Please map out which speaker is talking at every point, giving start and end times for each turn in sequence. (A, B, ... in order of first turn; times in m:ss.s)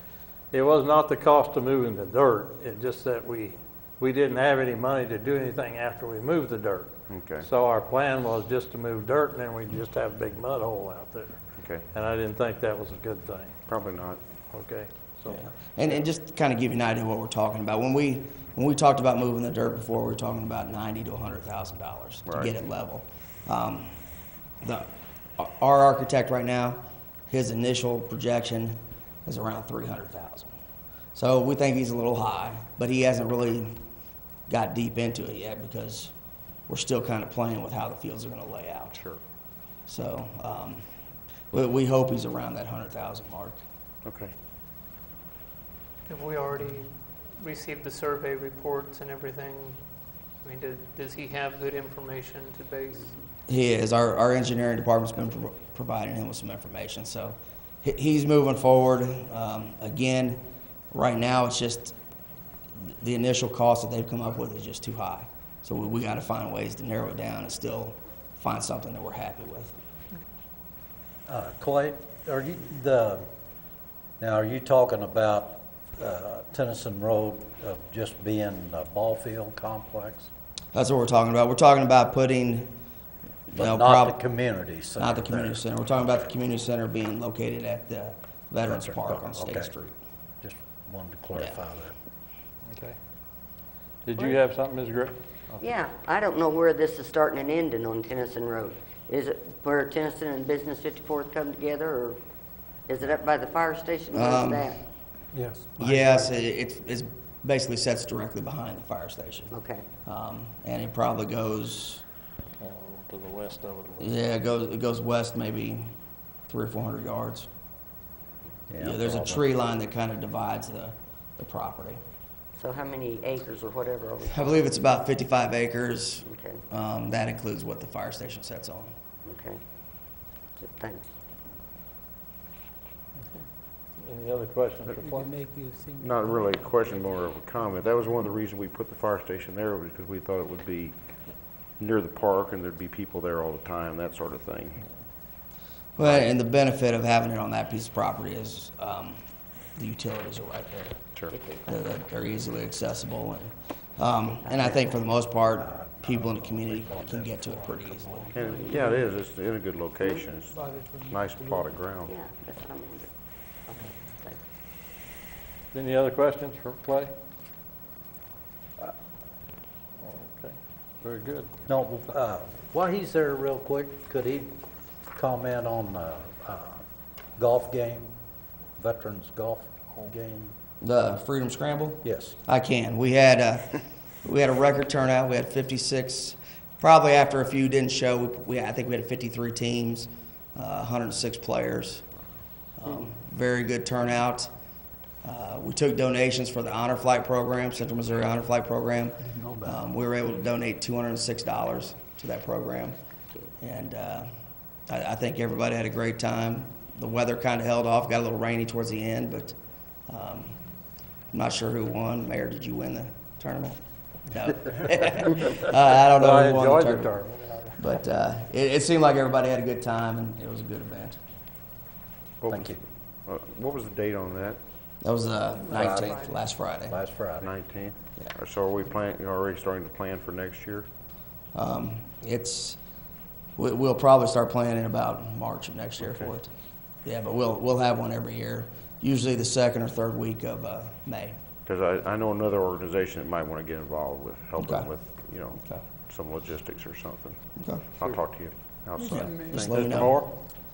0:00.5-0:13.6 A
0:07.1-0:07.5 B
0:11.6-0:11.9 B
0:13.7-0:14.2 B
0:14.5-0:15.5 A
0:15.3-0:24.0 C
0:22.3-0:22.6 B
0:24.6-0:30.6 C
0:31.2-0:33.8 C
0:34.5-0:36.1 C
0:36.7-0:39.0 C
0:38.9-0:39.2 B
0:39.9-0:40.8 C
0:41.5-0:43.6 C
0:44.0-0:44.3 B
0:46.1-0:53.2 D
0:53.5-1:02.0 C
1:02.8-1:09.7 C
1:11.3-1:13.3 E
1:14.2-1:20.3 E
1:20.7-1:22.7 C
1:23.5-1:24.2 C
1:23.5-1:25.7 E
1:25.0-1:30.0 C
1:28.6-1:29.7 E
1:30.4-1:31.9 E
1:32.7-1:33.0 A
1:34.0-1:35.6 A
1:35.6-1:42.2 F
1:42.9-1:44.8 F
1:44.1-1:44.8 C
1:45.3-1:46.4 E
1:45.8-1:49.6 C
1:49.5-1:49.9 F
1:50.1-1:52.0 C
1:52.6-1:54.2 A
1:54.0-1:55.9 C
1:56.5-1:57.5 C
1:58.7-1:59.5 E
1:58.8-2:02.0 C
2:02.6-2:04.9 F
2:04.2-2:08.9 C
2:06.2-2:06.6 F
2:09.2-2:09.6 F
2:10.6-2:11.1 F
2:14.0-2:15.3 A
2:14.9-2:17.1 G
2:16.0-2:21.0 B
2:21.8-2:24.8 B
2:26.0-2:26.3 B
2:26.0-2:29.2 C
2:29.8-2:31.0 C
2:31.3-2:31.9 F
2:31.7-2:38.4 C
2:34.4-2:35.1 F
2:35.5-2:38.3 E
2:38.3-2:39.0 F
2:38.3-2:42.1 B
2:40.0-2:40.3 F
2:40.5-2:41.7 G
2:42.0-2:43.1 F
2:43.7-2:44.4 F
2:45.7-2:47.1 A
2:50.0-2:51.5 A
2:51.7-2:54.6 E
2:55.1-2:56.8 E
2:57.4-2:58.1 E
2:58.8-3:00.6 E
3:00.8-3:12.1 C
3:02.0-3:02.4 E
3:12.8-3:14.5 C
3:15.2-3:23.0 C
3:19.3-3:19.8 E
3:23.6-3:24.3 C
3:24.9-3:29.6 C
3:30.1-3:30.6 C
3:31.3-3:33.8 C
3:34.3-3:37.2 C
3:36.2-3:37.8 A
3:37.8-3:41.2 C
3:42.4-3:44.6 B
3:42.5-3:42.8 E
3:45.0-3:47.0 C
3:45.7-3:46.3 E
3:45.8-3:46.4 D
3:46.9-3:47.5 E
3:47.4-3:50.9 B
3:51.5-3:52.8 C
3:53.6-3:56.5 C
3:56.0-3:56.4 B
3:57.0-4:01.4 C
4:01.7-4:07.4 B
4:04.6-4:04.9 C
4:05.5-4:05.8 C
4:07.6-4:08.1 C
4:08.0-4:10.2 B
4:09.0-4:09.6 G
4:09.0-4:10.2 C
4:09.7-4:10.2 A